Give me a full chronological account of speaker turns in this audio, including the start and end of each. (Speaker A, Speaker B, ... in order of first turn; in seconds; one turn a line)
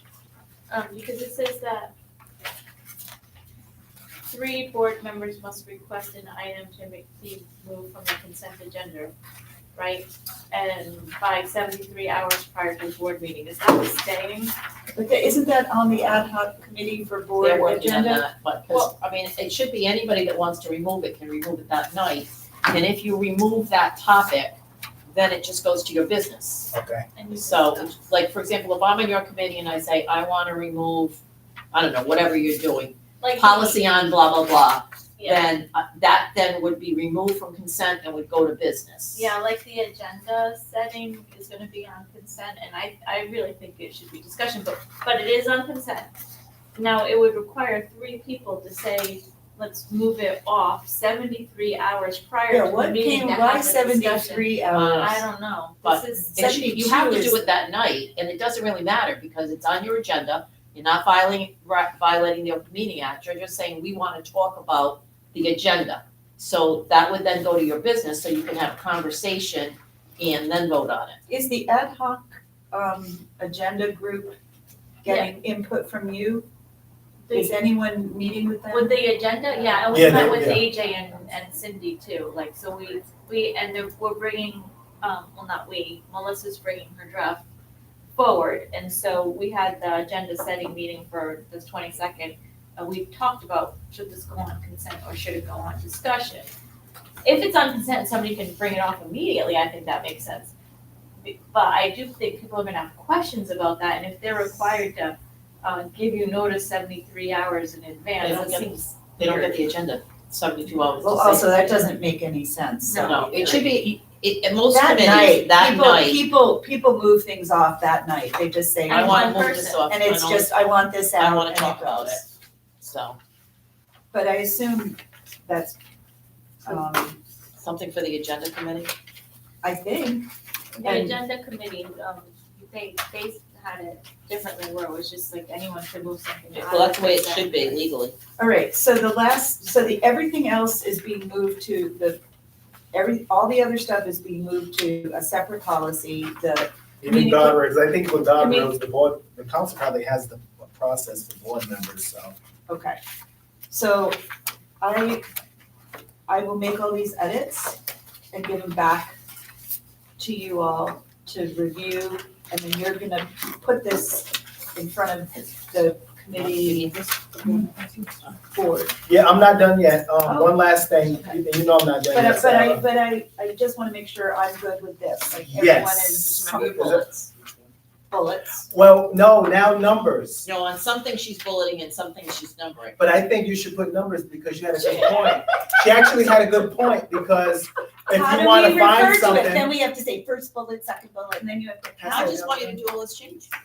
Speaker A: 0.7-1.9
Speaker A: 4.2-9.1
Speaker A: 9.8-14.5
Speaker B: 14.9-18.2
Speaker C: 17.4-24.6
Speaker C: 25.1-26.7
Speaker D: 26.7-27.1
Speaker A: 27.1-28.0
Speaker C: 27.3-31.2
Speaker C: 31.7-39.3
Speaker A: 33.2-33.8
Speaker A: 35.2-35.5
Speaker A: 39.1-46.1
Speaker A: 46.7-56.4
Speaker B: 52.5-55.2
Speaker C: 54.7-55.2
Speaker C: 55.8-71.2
Speaker B: 56.3-57.4
Speaker B: 71.3-74.4
Speaker B: 75.0-76.5
Speaker A: 75.1-75.3
Speaker A: 77.3-77.6
Speaker B: 77.3-80.3
Speaker A: 78.7-87.4
Speaker D: 79.9-80.7
Speaker A: 88.2-96.5
Speaker A: 97.2-100.5
Speaker A: 101.2-109.6
Speaker C: 108.2-111.7
Speaker B: 111.0-113.8
Speaker A: 112.9-113.6
Speaker C: 113.0-116.2
Speaker B: 114.7-122.2
Speaker A: 118.9-119.8
Speaker C: 118.9-120.5
Speaker C: 121.2-122.3
Speaker C: 122.8-123.2
Speaker B: 124.1-125.8
Speaker B: 126.6-127.2
Speaker C: 127.6-128.9
Speaker B: 129.6-130.3
Speaker A: 130.8-137.8
Speaker B: 130.8-131.2
Speaker C: 136.5-138.1
Speaker B: 138.4-142.2
Speaker B: 142.9-146.7
Speaker D: 147.0-152.3
Speaker A: 147.1-147.5
Speaker A: 148.4-148.7
Speaker B: 152.7-153.0
Speaker B: 153.7-154.2
Speaker B: 154.8-155.2
Speaker B: 156.3-157.8
Speaker B: 158.3-159.2
Speaker B: 160.2-168.9
Speaker C: 166.3-168.3
Speaker D: 169.1-172.8
Speaker B: 170.2-170.6
Speaker B: 172.1-177.3
Speaker D: 175.4-177.0
Speaker C: 176.3-176.9
Speaker B: 178.1-178.7
Speaker D: 178.7-180.5
Speaker C: 180.4-183.0
Speaker D: 183.0-189.7
Speaker C: 184.8-185.2
Speaker B: 188.1-192.8
Speaker D: 192.0-192.7
Speaker C: 192.1-193.5